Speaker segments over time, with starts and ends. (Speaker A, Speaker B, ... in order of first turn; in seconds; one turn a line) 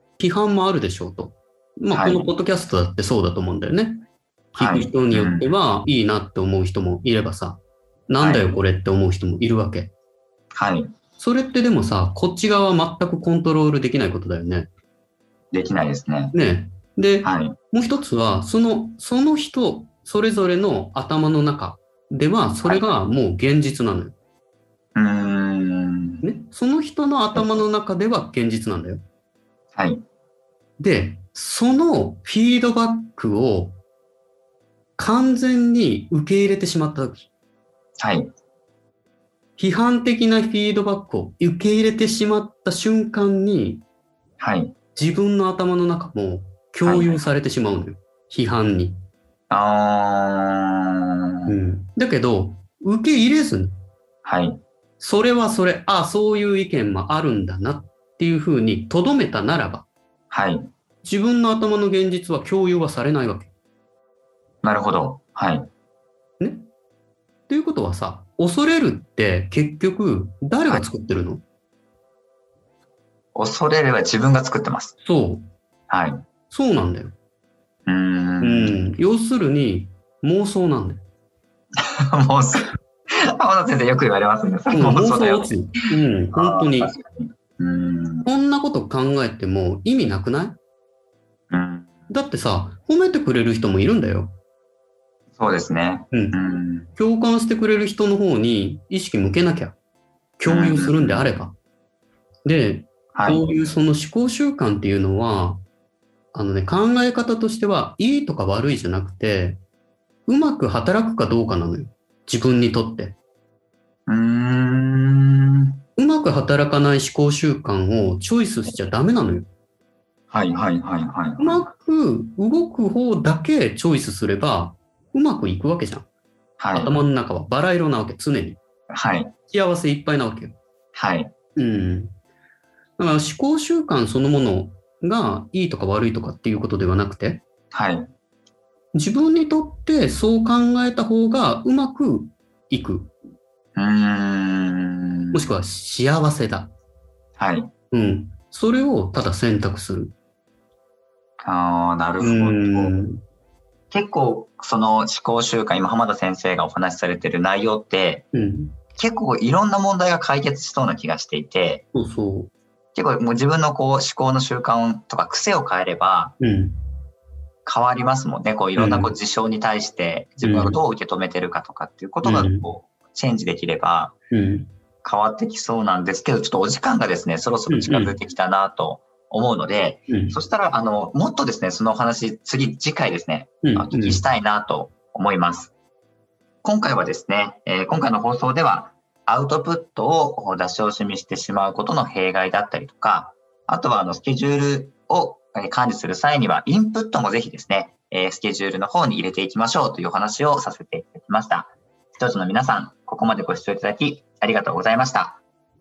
Speaker A: 0.2-9.9
Speaker B: 1.9-2.3
Speaker B: 4.6-5.5
Speaker B: 8.2-8.5
Speaker B: 10.5-10.9
Speaker A: 11.2-14.7
Speaker B: 15.5-16.3
Speaker A: 16.3-24.1
Speaker B: 17.2-17.6
Speaker B: 25.0-26.2
Speaker A: 26.2-29.0
Speaker B: 27.4-27.6
Speaker B: 29.8-30.0
Speaker A: 30.8-33.8
Speaker A: 35.0-37.3
Speaker B: 38.0-38.3
Speaker A: 39.6-43.8
Speaker B: 44.4-44.7
Speaker A: 45.0-49.0
Speaker B: 46.8-47.2
Speaker B: 49.5-51.6
Speaker A: 51.5-53.8
Speaker B: 54.2-54.6
Speaker A: 55.0-59.9
Speaker B: 60.3-60.7
Speaker A: 61.0-63.5
Speaker B: 64.6-65.7
Speaker A: 66.4-66.7
Speaker A: 67.5-71.4
Speaker B: 73.3-75.0
Speaker A: 75.0-75.5
Speaker B: 75.9-76.2
Speaker A: 76.5-77.1
Speaker B: 77.9-78.8
Speaker A: 78.4-81.0
Speaker B: 81.8-82.7
Speaker B: 83.3-85.7
Speaker A: 84.7-86.9
Speaker B: 86.3-88.2
Speaker A: 88.2-90.6
Speaker B: 91.5-91.9
Speaker A: 92.1-94.3
Speaker B: 95.4-96.9
Speaker A: 96.1-96.4
Speaker A: 97.0-99.8
Speaker A: 100.4-101.5
Speaker B: 100.5-101.3
Speaker A: 102.5-105.6
Speaker B: 103.1-103.6
Speaker A: 106.3-109.6
Speaker A: 110.3-113.2
Speaker B: 114.1-115.8
Speaker A: 116.0-119.5
Speaker B: 120.3-121.6
Speaker A: 121.4-126.1
Speaker B: 126.6-127.0
Speaker A: 126.7-128.6
Speaker B: 128.9-129.3
Speaker A: 129.5-130.6
Speaker B: 130.9-131.3
Speaker A: 131.6-132.1
Speaker A: 133.0-137.4
Speaker B: 137.7-138.1
Speaker A: 138.9-143.1
Speaker B: 143.8-145.4
Speaker A: 145.3-146.7
Speaker B: 147.4-147.7
Speaker A: 147.9-150.1
Speaker B: 151.4-152.9
Speaker A: 152.2-153.2
Speaker B: 153.9-158.2
Speaker A: 158.3-158.8
Speaker B: 159.0-161.8
Speaker A: 161.9-162.5
Speaker B: 162.9-166.4
Speaker A: 166.4-166.8
Speaker B: 167.7-174.1
Speaker A: 168.8-169.1
Speaker A: 170.4-170.8
Speaker A: 172.2-172.6
Speaker A: 174.3-174.7
Speaker B: 175.0-185.7
Speaker A: 177.7-178.1
Speaker A: 180.1-180.3
Speaker A: 183.6-184.2
Speaker B: 186.6-205.4